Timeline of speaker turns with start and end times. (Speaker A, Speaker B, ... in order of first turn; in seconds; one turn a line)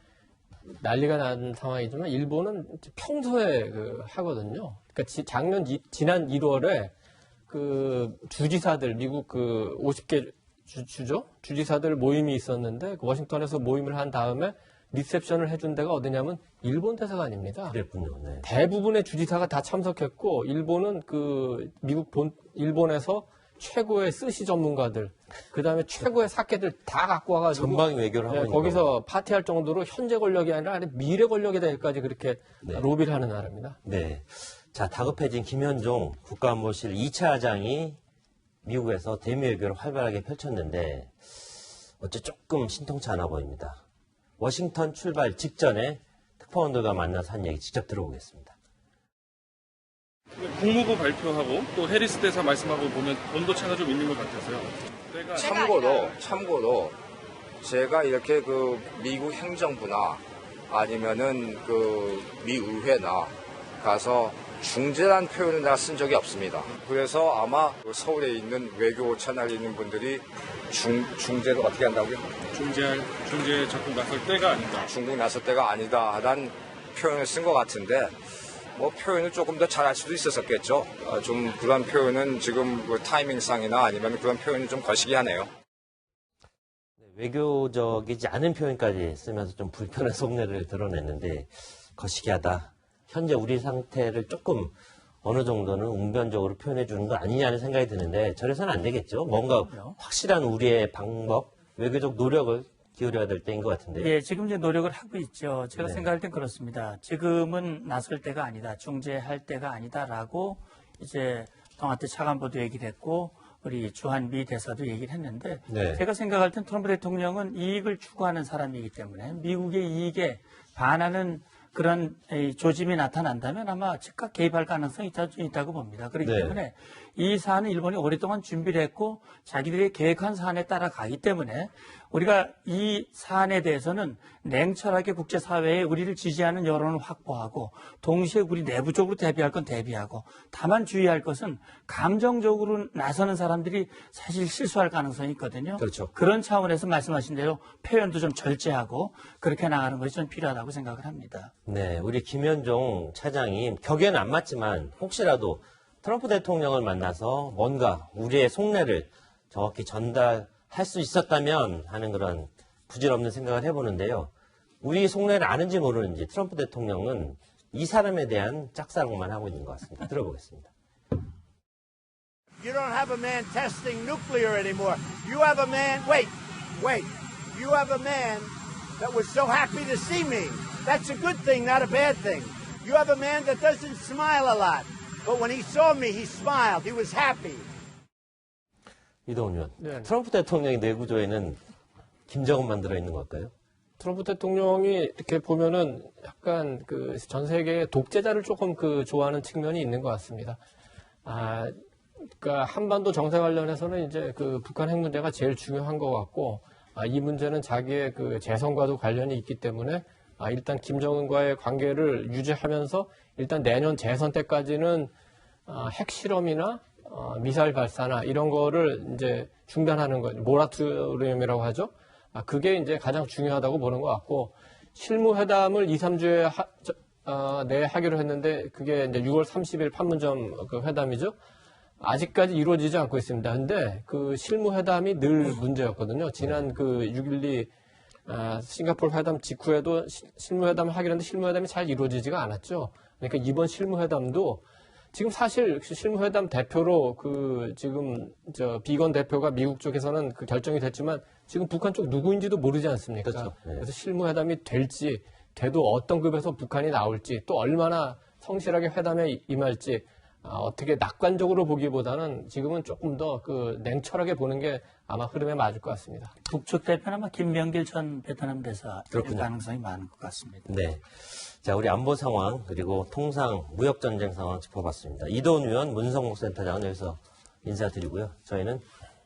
Speaker A: 0.7-6.9
Speaker A: 7.5-17.8
Speaker B: 17.7-18.5
Speaker A: 18.4-33.8
Speaker B: 27.5-28.9
Speaker B: 32.6-32.9
Speaker B: 33.8-38.0
Speaker B: 38.6-43.8
Speaker B: 44.4-48.6
Speaker C: 50.4-56.2
Speaker D: 55.3-57.0
Speaker D: 57.6-72.3
Speaker C: 72.5-74.9
Speaker D: 74.8-78.2
Speaker D: 78.8-85.5
Speaker B: 87.0-104.1
Speaker E: 99.3-100.0
Speaker E: 104.0-151.5
Speaker B: 105.8-106.1
Speaker B: 115.7-116.0
Speaker B: 126.2-126.6
Speaker B: 145.8-146.1
Speaker B: 151.7-164.3
Speaker B: 164.8-170.7
Speaker F: 172.6-187.7
Speaker B: 189.3-191.6
Speaker A: 189.8-190.1
Speaker B: 192.3-193.5
Speaker A: 194.0-200.6
Speaker A: 201.2-201.8
Speaker A: 202.4-215.1
Speaker A: 215.7-231.4
Speaker A: 232.0-237.7
Speaker A: 238.3-244.6
Speaker A: 245.1-266.3
Speaker B: 253.2-253.9
Speaker E: 266.4-270.7
Speaker B: 269.1-269.5
Speaker B: 270.7-278.8